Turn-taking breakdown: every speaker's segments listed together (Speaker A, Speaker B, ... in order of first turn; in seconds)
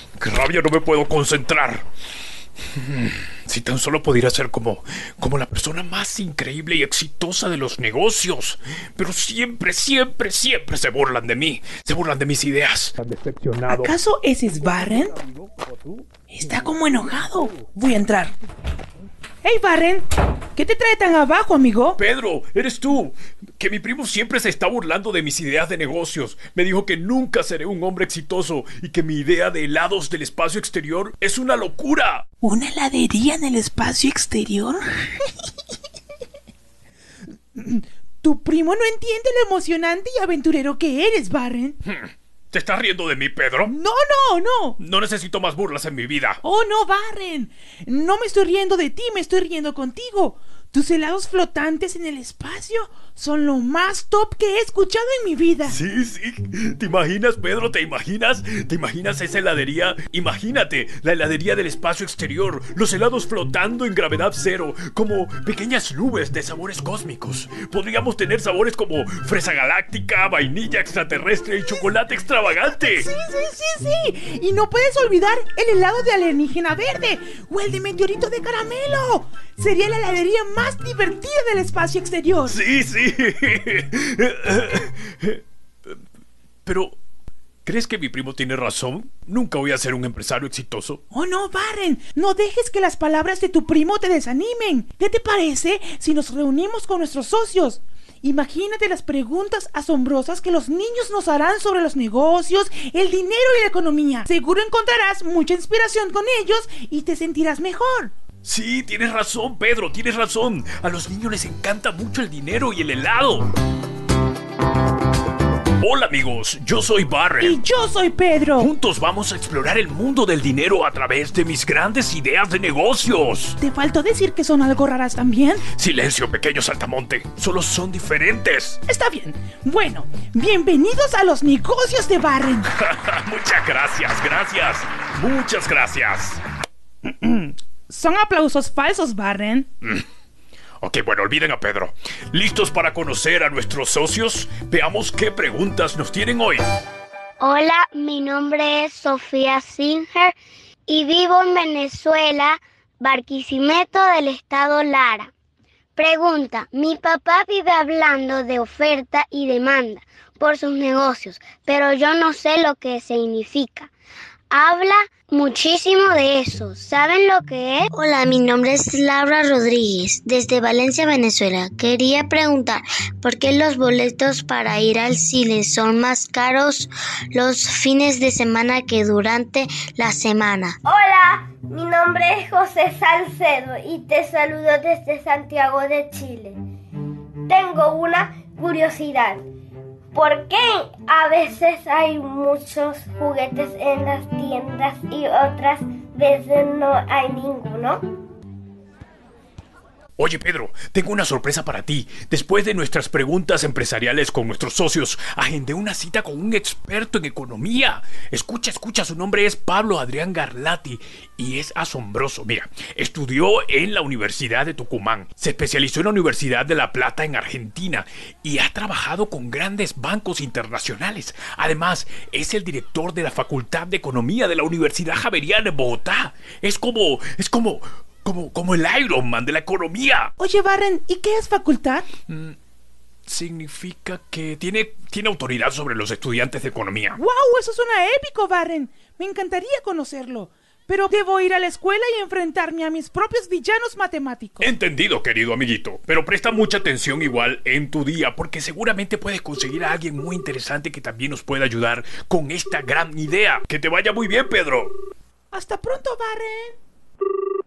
Speaker A: 0.2-1.8, 2.8-13.9, 14.6-16.2, 22.0-32.2, 41.8-43.7, 44.8-46.4, 55.6-73.1, 82.5-86.0, 86.7-87.0, 87.6-91.0, 108.4-113.5, 115.8-117.6, 118.6-123.6, 125.7-128.8, 132.8-136.4, 140.8-146.6, 200.2-230.3, 232.3-232.6, 233.2-237.2, 244.6-254.9
Speaker B: 13.7-15.1, 16.3-18.3, 19.4-20.1, 20.6-22.0, 32.4-35.3, 37.5-41.8, 43.6-44.8, 46.4-55.8, 72.8-82.6, 91.1-108.1, 117.4-118.7, 123.6-125.6, 128.9-132.7, 137.1-139.7, 230.4-232.1, 237.2-244.7, 255.5-256.8
Speaker C: 147.4-150.3, 150.9-155.3, 156.0-163.9, 164.5-167.9
Speaker D: 167.9-180.7
Speaker E: 180.8-186.6, 187.5-189.4, 190.1-198.1